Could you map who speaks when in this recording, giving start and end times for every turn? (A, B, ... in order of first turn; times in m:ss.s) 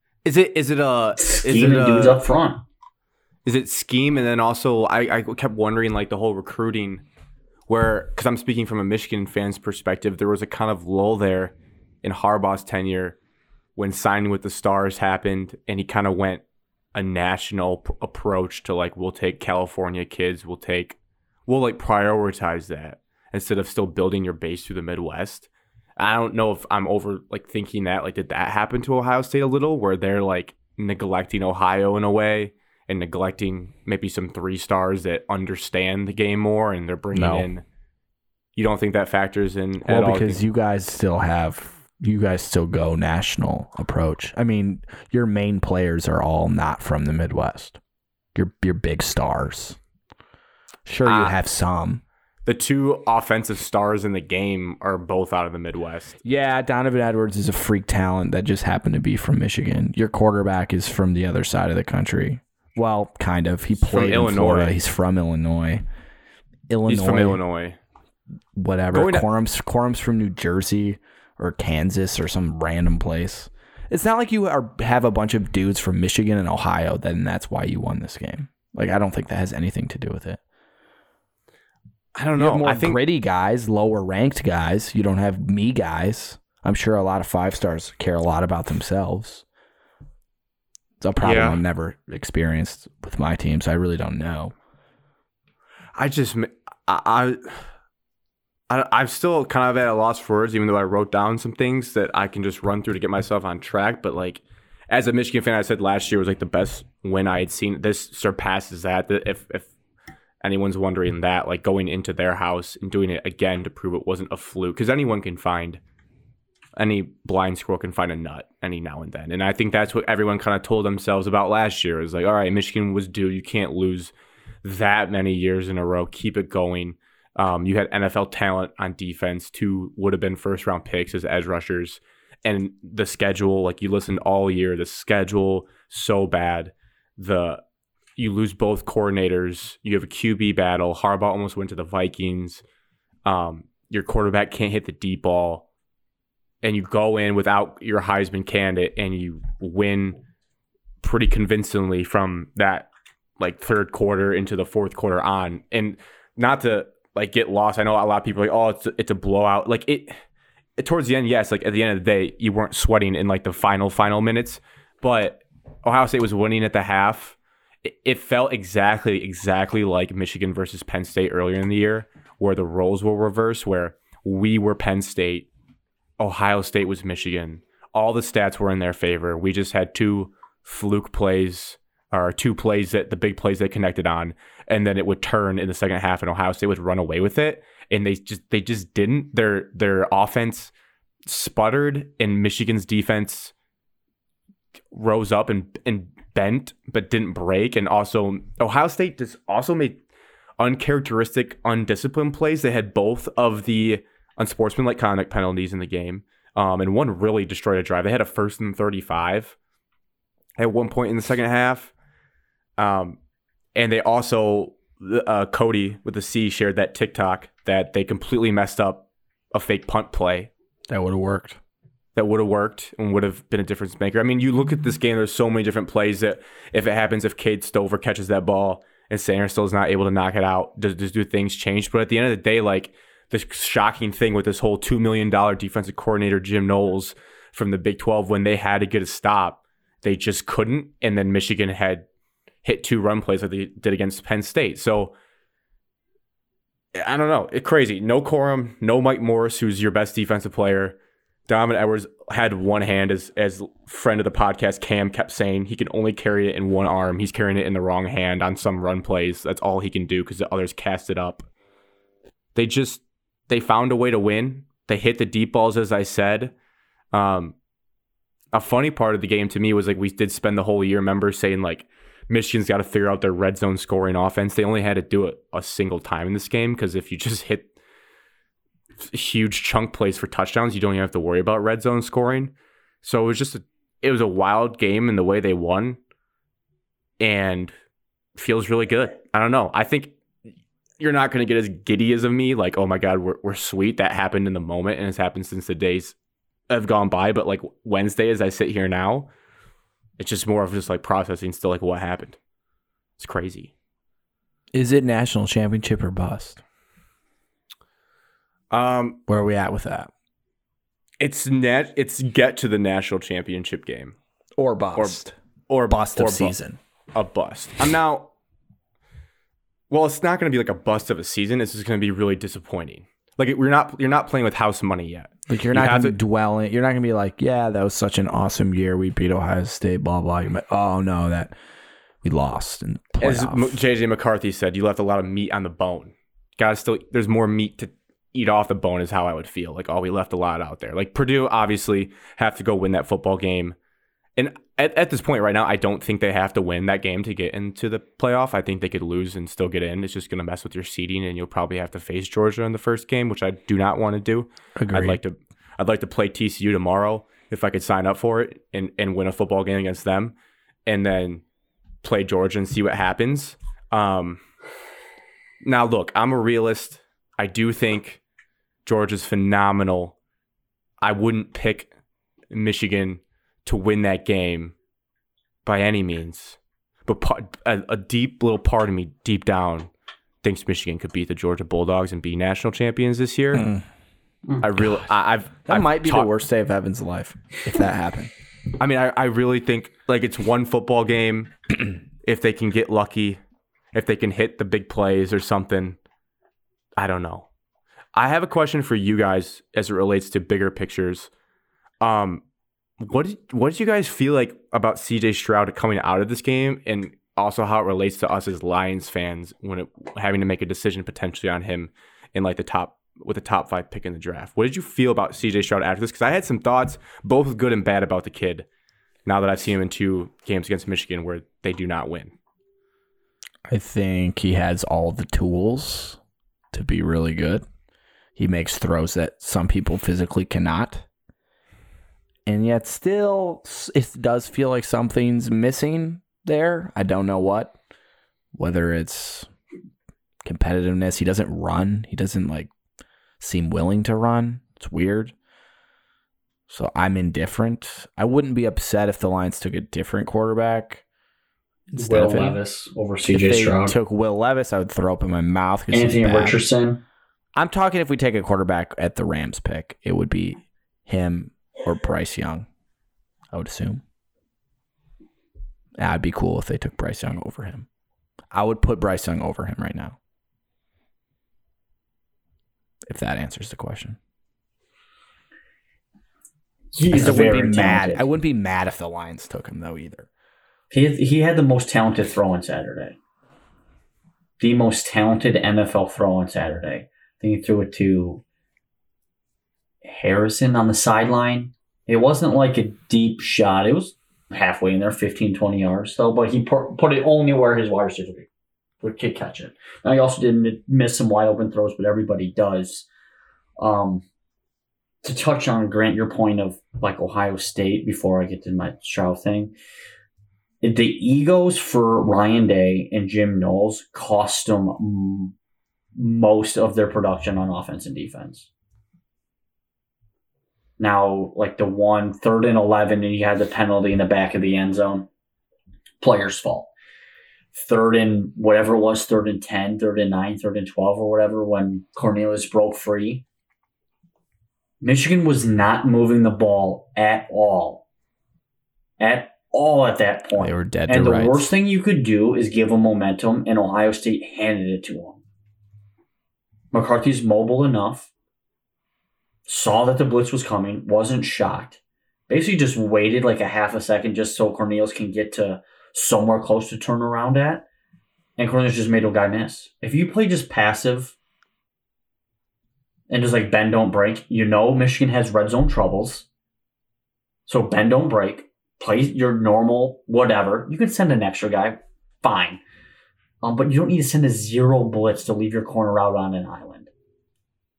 0:00.2-0:02.2 A
0:01.2-0:02.6 B
0:03.4-0:07.0 A
0:07.7-0:13.2 A
0:13.8-0:16.4 A
0:16.9-0:37.6 A
0:37.1-0:37.5 C
0:38.6-0:40.4 A
0:39.8-0:47.8 C
0:48.4-0:49.8 C
0:50.9-0:52.0 C
0:51.0-0:51.4 A
0:52.4-0:56.2 A
0:56.2-1:05.8 C
1:03.8-1:04.8 A
1:06.7-1:07.4 C
1:06.9-1:07.8 A
1:08.6-1:20.4 C
1:08.9-1:09.3 A
1:22.2-1:23.0 A
1:22.4-1:29.4 C
1:31.0-1:34.5 C
1:31.2-1:31.6 A
1:36.0-1:37.6 A
1:38.7-1:49.7 A
1:50.4-1:55.8 A
1:56.8-2:17.6 A
2:18.2-2:22.6 A
2:23.2-2:25.7 A
2:26.6-2:30.2 A
2:31.0-2:40.2 A
2:40.8-2:55.5 A
2:56.2-3:10.7 A
3:11.3-3:13.5 A
3:14.9-3:20.0 A
3:20.6-3:29.6 A
3:30.6-3:31.9 A
3:32.8-3:33.2 A
3:33.8-3:40.5 A
3:40.9-3:41.6 C
3:42.2-4:02.0 A
4:02.6-4:05.1 A
4:07.0-4:21.5 A
4:22.6-4:26.5 A
4:27.1-4:27.6 A
4:28.5-4:37.7 A
4:39.0-4:46.0 A
4:47.2-4:47.7 A
4:48.4-4:50.2 A
4:51.0-4:56.2 A
4:56.7-4:59.3 A
5:00.2-5:02.4 A
5:03.2-5:03.7 A
5:04.7-5:06.6 C
5:08.7-5:09.2 A
5:09.3-5:10.1 C
5:11.2-5:14.2 A
5:14.6-5:15.4 C
5:15.0-5:16.5 A
5:15.9-5:16.8 C
5:17.1-5:18.3 A
5:19.9-5:26.2 A
5:25.5-5:31.5 C
5:32.2-5:33.8 C
5:33.2-5:43.8 A
5:44.4-6:00.4 A
5:54.8-5:55.2 C
6:00.9-6:01.4 A
6:02.0-6:04.4 A
6:05.6-6:08.2 A
6:08.8-6:10.2 A
6:11.0-6:11.9 A
6:12.5-6:14.8 A
6:15.6-6:19.9 A
6:20.4-6:23.7 A
6:23.5-6:23.8 C
6:24.6-6:26.3 A
6:25.7-6:28.3 C
6:28.8-6:31.5 A
6:32.2-6:33.4 A
6:33.9-6:36.0 A
6:37.0-6:37.5 A
6:38.2-6:41.3 A
6:42.0-6:42.4 A
6:43.0-6:58.7 A
6:59.2-7:02.4 A
7:03.7-7:06.2 C
7:06.7-7:07.6 C
7:08.4-7:11.0 C
7:12.5-7:17.8 C
7:18.6-7:19.5 C
7:20.4-7:22.7 C
7:23.4-7:25.3 C
7:26.7-7:31.0 C
7:31.9-7:32.6 C
7:32.0-7:34.0 B
7:33.2-7:36.6 C
7:35.9-7:37.0 B
7:37.6-7:42.7 C
7:43.5-7:44.0 C
7:46.0-7:47.9 C
7:48.5-7:50.2 C
7:53.1-7:54.2 C
7:56.9-7:58.3 B
7:57.1-8:00.3 C
8:00.9-8:03.2 B
8:04.6-8:08.4 B
8:10.0-8:18.5 B
8:19.0-8:23.1 B
8:23.8-8:24.2 B
8:25.2-8:29.7 B
8:30.8-8:35.5 B
8:36.2-8:38.7 B
8:41.0-8:45.3 B
8:46.2-8:46.9 B
8:47.7-8:53.4 B
8:55.0-8:58.0 B
8:59.2-9:05.4 B
9:00.6-9:01.7 C
9:06.9-9:08.3 B
9:09.7-9:17.8 B
9:18.6-9:21.3 B
9:23.3-9:26.5 B
9:27.7-9:32.8 B
9:33.6-9:37.1 B